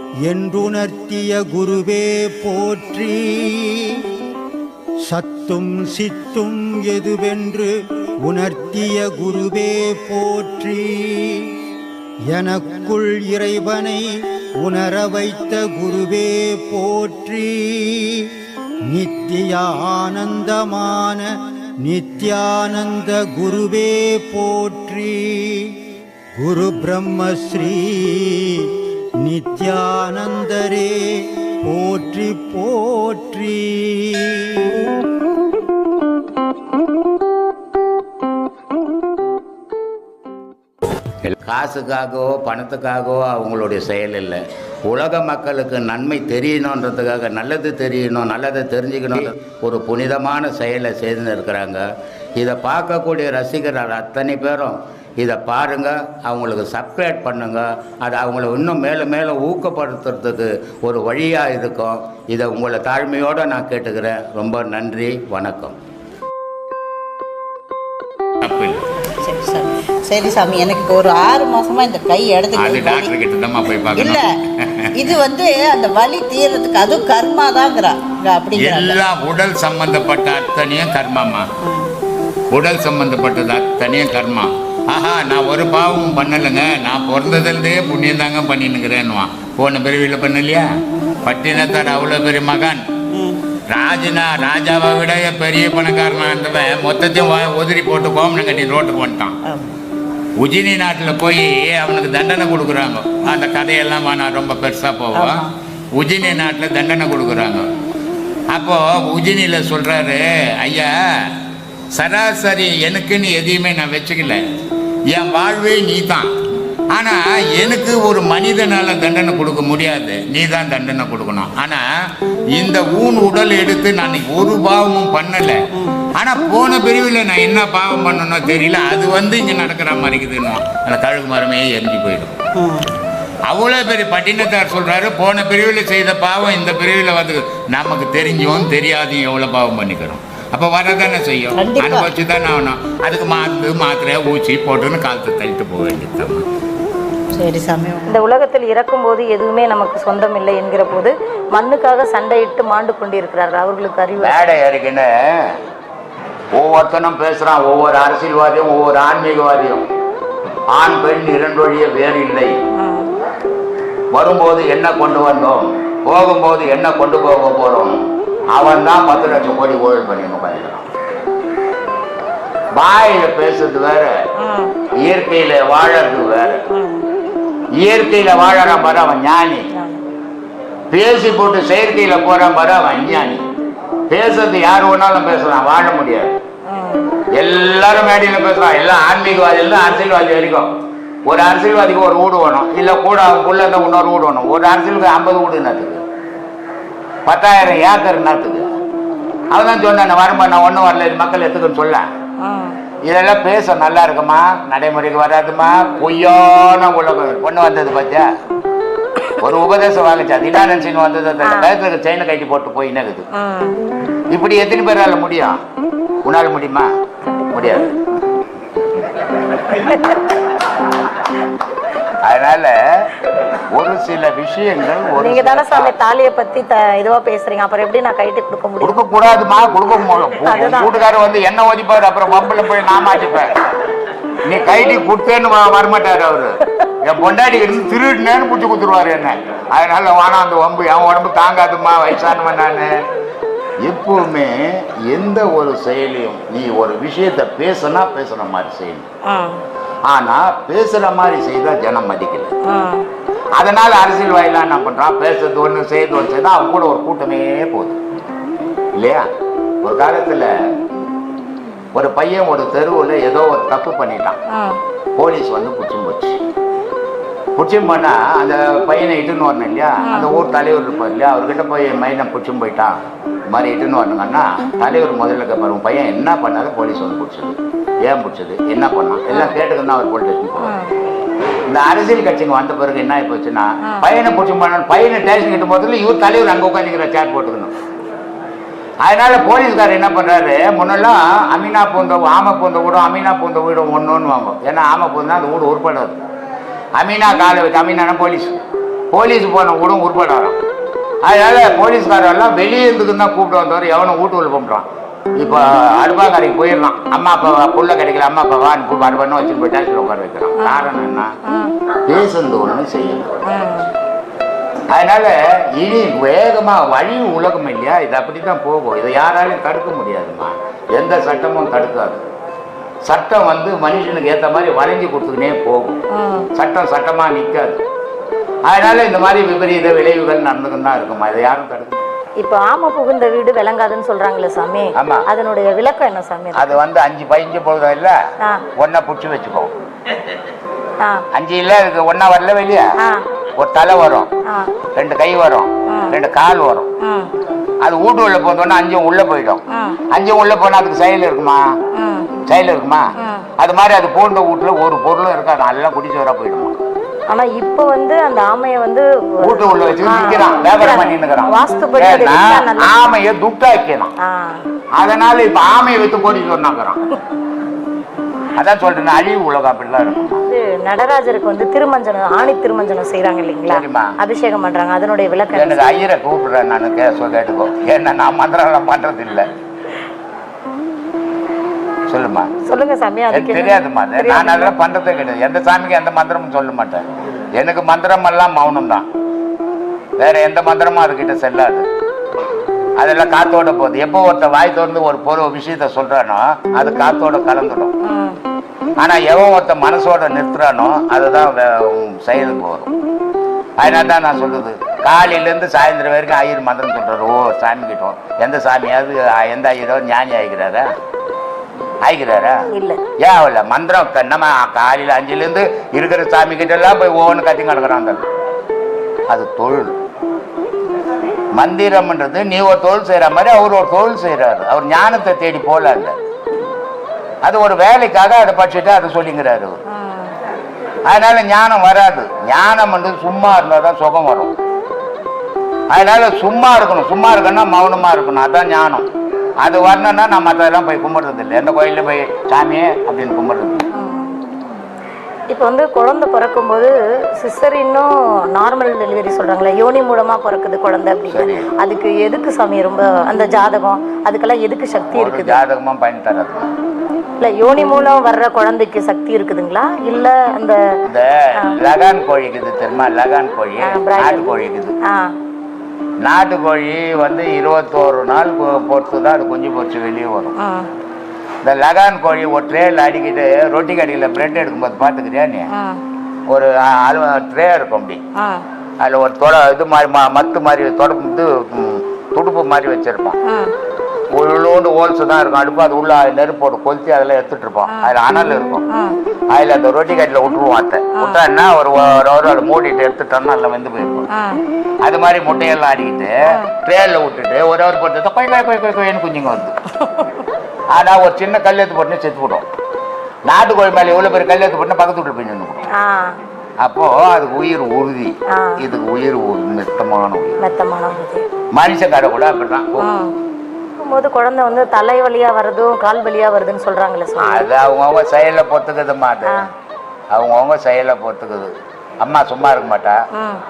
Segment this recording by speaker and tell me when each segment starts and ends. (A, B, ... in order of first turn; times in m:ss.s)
0:00.2-0:04.1 A
0:05.1-0:07.7 A
0:08.2-0:11.6 A
0:12.3-0:18.3 A
0:18.9-0:25.8 A
0:26.4-0:34.8 A
0:41.2-0:51.8 B
0:52.4-1:05.8 B
1:08.4-1:08.8 B
1:09.0-1:13.1 C
1:12.5-1:14.8 B
1:13.9-1:14.2 C
1:15.0-1:19.0 C
1:18.5-1:21.5 B
1:21.6-1:21.9 C
1:22.5-1:30.7 B
1:31.2-1:32.8 B
1:33.1-1:33.4 C
1:33.7-1:39.4 B
1:40.4-1:47.7 B
1:45.1-1:45.5 C
1:48.5-1:51.3 B
1:51.9-1:54.4 B
1:55.1-1:56.3 B
1:56.9-2:01.8 B
2:02.5-2:05.6 B
2:06.2-2:12.4 B
2:12.5-2:12.8 C
2:13.5-2:26.4 B
2:21.5-2:22.1 C
2:27.3-2:28.1 C
2:28.0-2:34.4 D
2:34.2-2:35.5 B
2:36.5-2:39.8 B
2:40.7-2:42.6 B
2:42.7-2:43.1 D
2:44.1-2:50.8 B
2:52.8-2:54.1 B
2:54.4-2:54.7 D
2:55.0-2:56.6 B
2:56.7-2:57.1 D
2:57.8-2:59.7 B
2:59.7-3:00.0 D
3:00.9-3:03.4 B
3:04.1-3:06.4 B
3:06.7-3:07.1 D
3:07.3-3:10.7 B
3:11.3-3:16.0 B
3:17.2-3:18.6 B
3:19.5-3:22.0 B
3:22.4-3:22.8 D
3:23.1-3:28.3 B
3:29.4-3:33.2 B
3:31.4-3:31.7 D
3:33.3-3:33.8 D
3:34.3-3:35.6 B
3:36.2-3:36.9 B
3:37.2-3:37.9 D
3:37.5-3:38.0 B
3:39.7-3:40.2 D
3:42.2-3:43.1 B
3:43.7-3:45.9 B
3:45.2-3:49.0 D
3:48.8-3:53.5 B
3:50.4-3:50.9 D
3:54.4-4:03.0 B
3:54.6-3:55.0 D
4:03.8-4:09.1 B
4:09.2-4:09.6 D
4:10.0-4:12.5 B
4:12.6-4:13.0 D
4:13.6-4:18.0 B
4:18.9-4:19.2 B
4:19.8-4:20.5 B
4:21.9-4:24.4 B
4:24.5-4:24.8 D
4:25.2-4:26.4 B
4:27.6-4:32.9 B
4:30.0-4:30.3 D
4:33.5-4:40.7 B
4:40.6-4:40.9 D
4:41.7-4:47.7 B
4:49.0-4:56.2 B
4:57.0-4:58.6 B
4:59.1-5:00.6 B
5:01.2-5:11.3 B
5:10.6-5:10.9 D
5:11.4-5:11.7 D
5:12.1-5:13.4 B
5:13.4-5:13.9 D
5:14.9-5:22.2 B
5:23.0-5:26.0 B
5:26.1-5:26.5 D
5:26.5-5:27.8 B
5:28.6-5:32.0 B
5:32.4-5:36.8 D
5:35.0-5:35.2 B
5:36.6-5:38.2 B
5:38.8-5:39.7 B
5:41.3-5:42.9 B
5:43.6-5:44.3 B
5:44.9-5:46.9 B
5:45.9-5:46.2 D
5:47.0-5:47.3 D
5:47.8-5:51.7 B
5:49.7-5:50.0 D
5:51.9-5:52.3 D
5:52.4-5:53.0 B
5:53.2-5:53.5 D
5:53.6-5:56.8 B
5:57.3-6:03.1 D
5:59.4-6:04.1 B
6:04.2-6:04.6 D
6:05.0-6:07.0 B
6:08.6-6:10.4 B
6:10.5-6:15.8 D
6:13.7-6:14.1 B
6:15.5-6:19.4 B
6:22.1-6:22.5 B
6:22.6-6:24.7 D
6:23.3-6:27.0 B
6:27.6-6:29.0 B
6:30.2-6:31.8 B
6:33.0-6:37.9 B
6:38.0-6:38.4 D
6:39.0-6:42.9 B
6:43.8-6:50.9 B
6:52.0-6:52.6 B
6:52.7-6:53.0 D
6:53.2-6:58.2 B
6:59.3-7:00.0 B
7:01.5-7:06.2 B
7:07.4-7:09.8 B
7:09.9-7:10.3 D
7:11.0-7:14.5 B
7:15.9-7:19.1 B
7:19.6-7:23.8 B
7:23.9-7:24.3 D
7:25.5-7:35.6 D
7:31.3-7:31.7 B
7:35.1-7:36.7 B
7:37.4-7:40.8 D
7:41.1-7:44.9 B
7:43.8-7:44.5 D
7:46.2-7:50.5 B
7:50.6-7:50.9 D
7:51.6-7:55.7 B
7:55.7-7:56.0 D
7:56.5-7:58.2 B
7:58.4-7:58.6 D
7:59.0-8:03.4 B
8:03.4-8:03.7 D
8:04.3-8:08.8 B
8:08.9-8:09.2 D
8:09.5-8:14.3 B
8:14.3-8:14.6 D
8:15.0-8:19.7 B
8:20.9-8:22.6 B
8:23.5-8:25.8 B
8:25.9-8:26.3 D
8:26.8-8:30.6 B
8:28.5-8:28.8 D
8:30.6-8:31.4 D
8:31.7-8:33.1 B
8:33.0-8:33.3 D
8:34.0-8:37.7 D
8:37.4-8:39.6 B
8:40.3-8:43.2 B
8:43.3-8:43.6 D